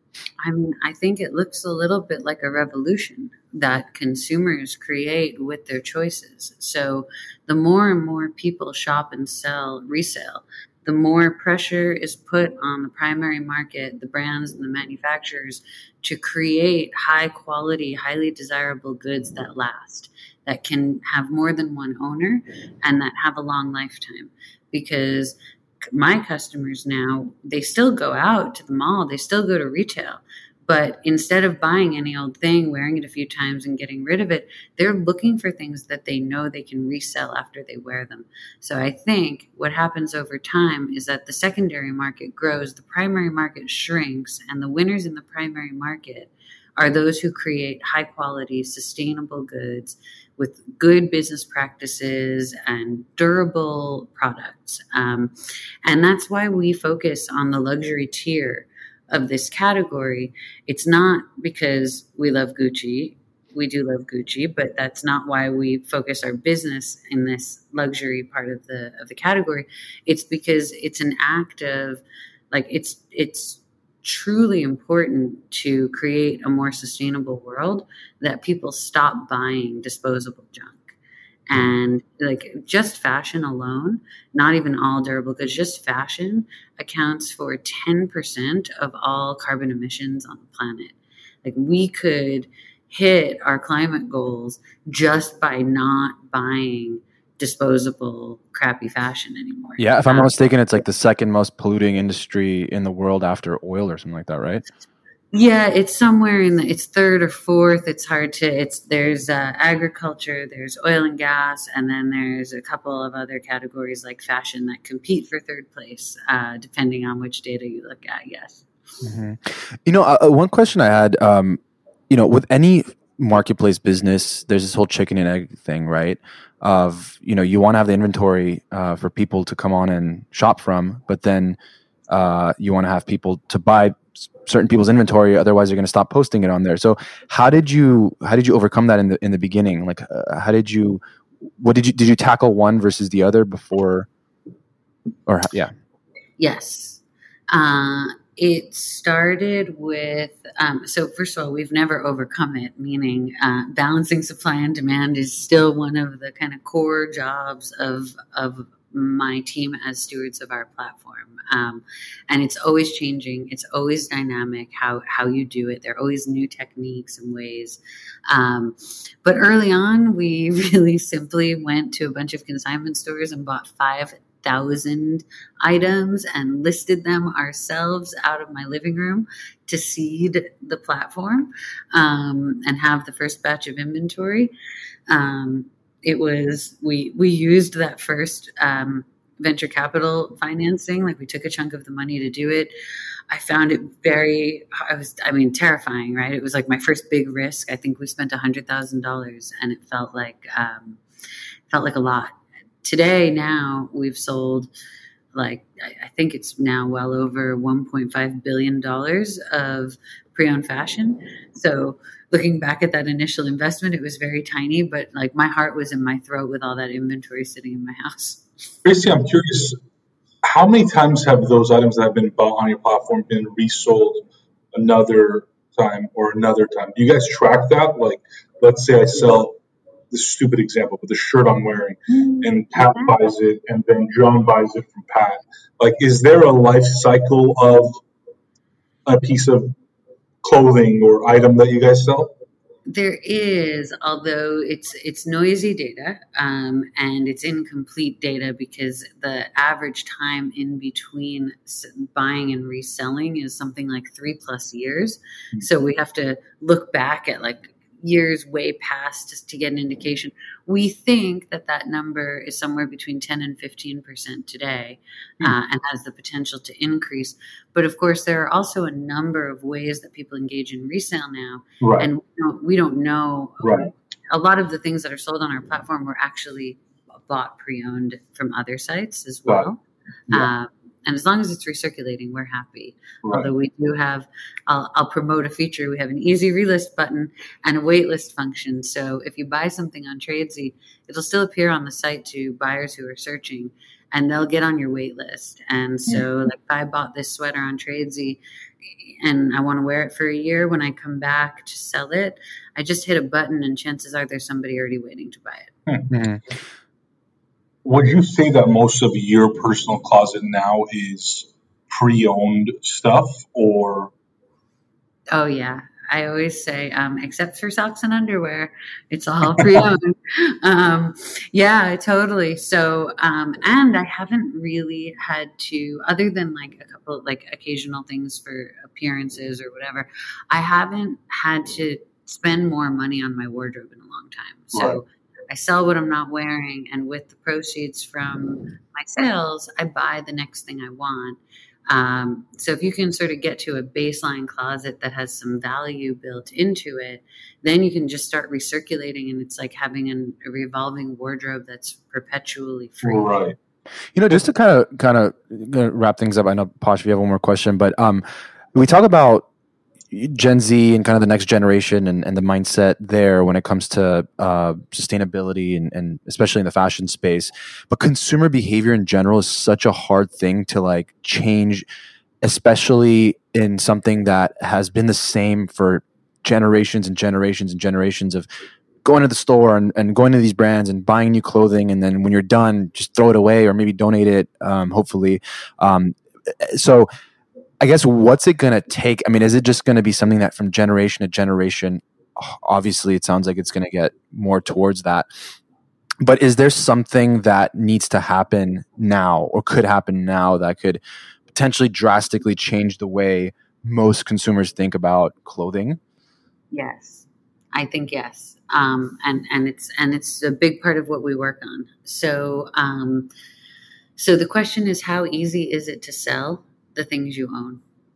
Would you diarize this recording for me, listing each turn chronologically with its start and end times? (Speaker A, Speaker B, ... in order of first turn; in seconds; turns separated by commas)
Speaker A: 0.4-81.0, Speaker A: 81.5-100.3, Speaker B: 99.8-104.7, Speaker A: 105.3-118.7, Speaker B: 119.0-131.6, Speaker B: 132.1-141.0, Speaker B: 141.6-144.1, Speaker B: 145.3-145.7, Speaker A: 146.4-184.5, Speaker A: 185.1-192.7, Speaker A: 193.3-201.0, Speaker A: 201.7-204.7, Speaker A: 205.3-218.4, Speaker C: 218.8-219.8, Speaker C: 220.4-229.6, Speaker C: 230.1-238.0, Speaker A: 232.2-233.1, Speaker C: 239.1-239.7, Speaker C: 240.4-242.3, Speaker A: 242.9-298.4, Speaker C: 271.8-272.1, Speaker C: 273.6-273.9, Speaker C: 283.2-283.5, Speaker A: 299.0-305.7, Speaker B: 306.1-306.4, Speaker C: 307.8-314.1, Speaker A: 315.3-353.4, Speaker C: 319.6-319.8, Speaker C: 334.7-335.0, Speaker C: 353.0-353.6, Speaker B: 354.1-359.5, Speaker B: 360.1-371.9, Speaker B: 372.4-378.5, Speaker B: 379.0-387.1, Speaker B: 387.8-395.3, Speaker B: 396.2-406.0, Speaker A: 406.7-413.3, Speaker A: 414.2-417.8